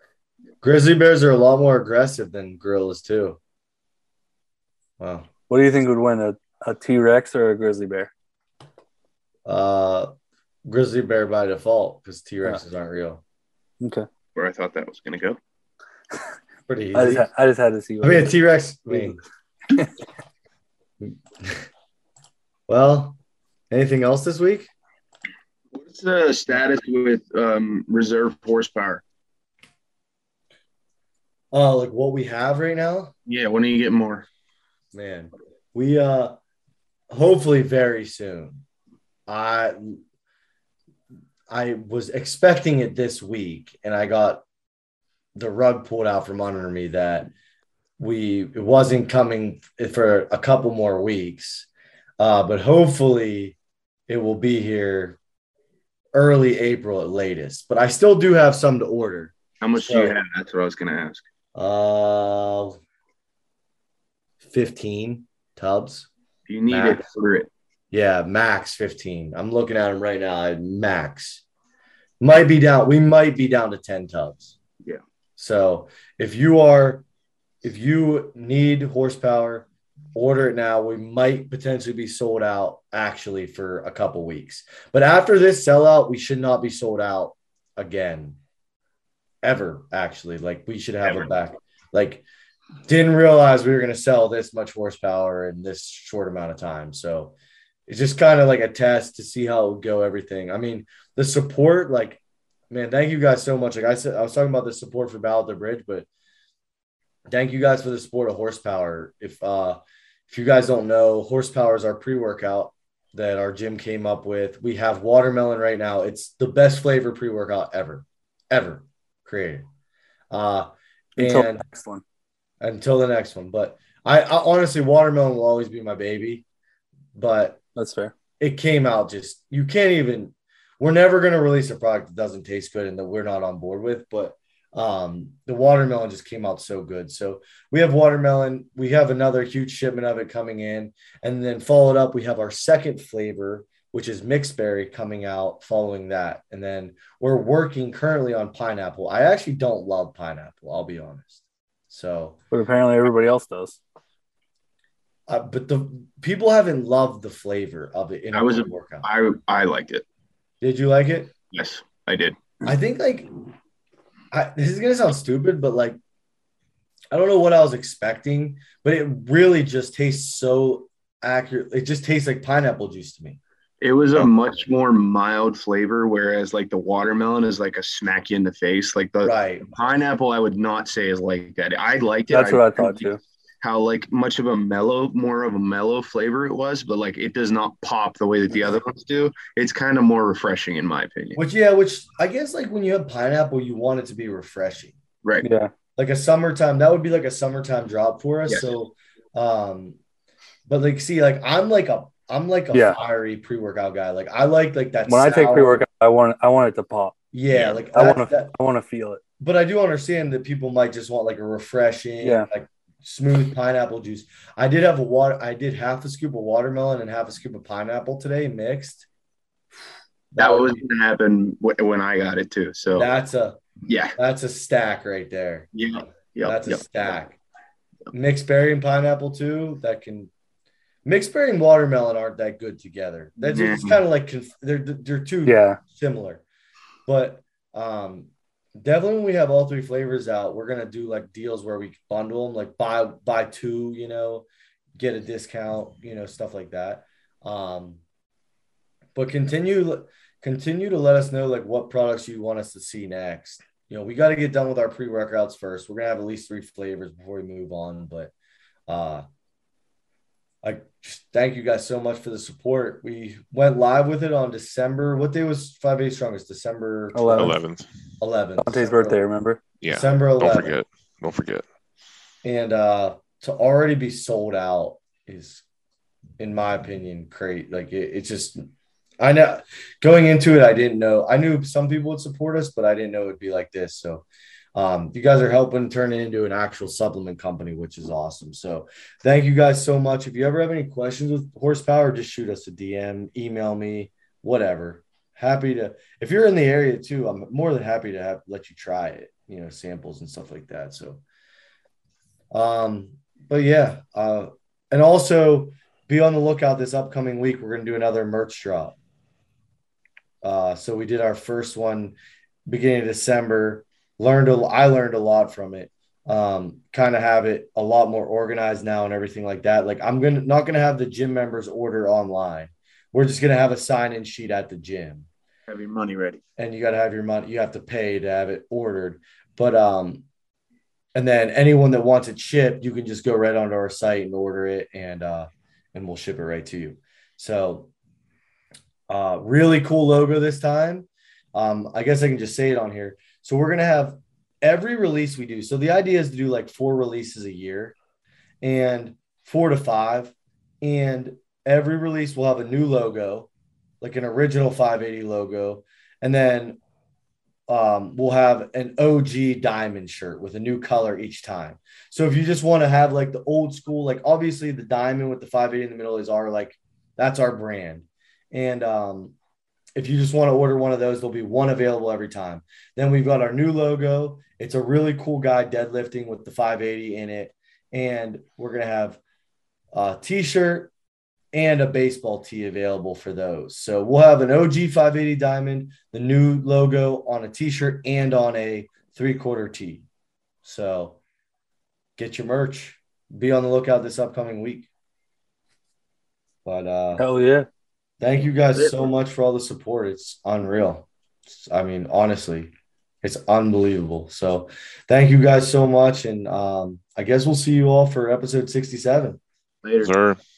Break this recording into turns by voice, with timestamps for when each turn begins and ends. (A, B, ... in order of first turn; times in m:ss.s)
0:00.6-0:03.4 A
0:05.0-0:05.3 A
0:05.5-0:08.1 B
0:09.4-0:10.1 A
0:10.6-0:13.2 A
0:13.8-0:14.1 B
0:14.3-0:15.4 C
0:16.7-0:17.3 A
0:16.9-0:18.3 B
0:18.0-0:19.2 A
0:18.9-0:19.2 B
0:21.0-0:21.6 A
0:22.7-0:23.2 A
0:23.7-0:24.7 A
0:25.7-0:29.0 C
0:31.5-0:33.1 A
0:33.2-0:34.3 C
0:34.9-0:36.3 A
0:37.1-0:38.6 A
0:39.3-0:40.0 A
0:41.5-0:44.4 A
0:45.3-0:47.3 A
0:48.0-0:51.7 A
0:52.2-0:53.6 A
0:54.1-0:55.2 A
0:56.1-1:00.2 A
0:59.6-1:01.2 C
1:01.5-1:02.8 A
1:04.4-1:06.1 A
1:06.5-1:07.5 C
1:06.7-1:07.0 A
1:07.9-1:11.4 A
1:12.2-1:14.6 A
1:15.4-1:17.0 A
1:17.6-1:28.4 A
1:29.4-1:32.2 A
1:32.9-1:37.3 A
1:37.9-1:46.1 A
1:47.3-1:59.6 A
2:00.3-2:01.6 A
2:01.2-2:02.0 B
2:02.6-2:06.4 A
2:07.1-2:07.6 A
2:07.7-2:08.1 B
2:08.4-2:32.4 A
2:32.5-2:33.8 B
2:35.3-2:39.1 A
2:38.3-2:40.0 C
2:40.6-2:41.3 A
2:41.5-2:42.4 C
2:42.6-2:43.3 A
2:44.3-2:46.0 A
2:47.1-2:53.4 A
2:53.8-3:11.4 C
2:59.2-2:59.6 A
3:02.3-3:03.2 B
3:11.4-3:15.0 A
3:15.4-3:15.7 B
3:16.0-3:20.0 A
3:20.7-3:25.8 A
3:22.7-3:23.0 B
3:25.1-3:27.2 B
3:27.3-3:28.5 A
3:27.5-3:27.8 C
3:27.9-3:29.2 B
3:29.4-3:39.1 A
3:32.2-3:32.5 B
3:40.3-3:40.8 A
3:40.4-3:43.1 C
3:42.9-3:43.6 A
3:43.8-3:44.1 C
3:44.2-3:45.7 A
3:45.7-3:46.8 C
3:46.4-3:47.4 A
3:48.1-3:50.3 A
3:51.0-3:56.4 A
3:53.4-3:54.0 C
3:55.4-3:55.8 B
3:57.0-4:04.4 A
4:05.0-4:08.0 A
4:09.2-4:18.3 A
4:18.9-4:19.2 A
4:20.6-4:27.6 A
4:27.1-4:27.5 B
4:27.4-4:27.8 D
4:28.2-4:29.2 A
4:28.6-4:29.6 B
4:29.8-4:31.6 D
4:29.9-4:30.7 A
4:32.4-4:35.6 A
4:36.4-4:38.6 A
4:39.2-5:01.2 A
5:02.5-5:09.0 A
5:10.4-5:12.1 A
5:12.7-5:25.3 A
5:25.7-5:26.4 C
5:26.6-5:30.2 A
5:31.1-5:37.9 A
5:39.1-5:47.9 A
5:48.6-5:53.5 A
5:54.0-5:56.8 A
5:57.7-6:09.3 A
6:09.9-6:19.2 A
6:19.9-6:20.9 A
6:21.5-6:30.0 A
6:30.6-6:31.2 A
6:32.2-6:34.9 A
6:36.6-6:37.2 A
6:37.2-6:37.7 B
6:38.2-6:49.4 A
6:38.7-6:39.1 C
6:49.8-6:50.1 C
6:50.0-6:50.4 D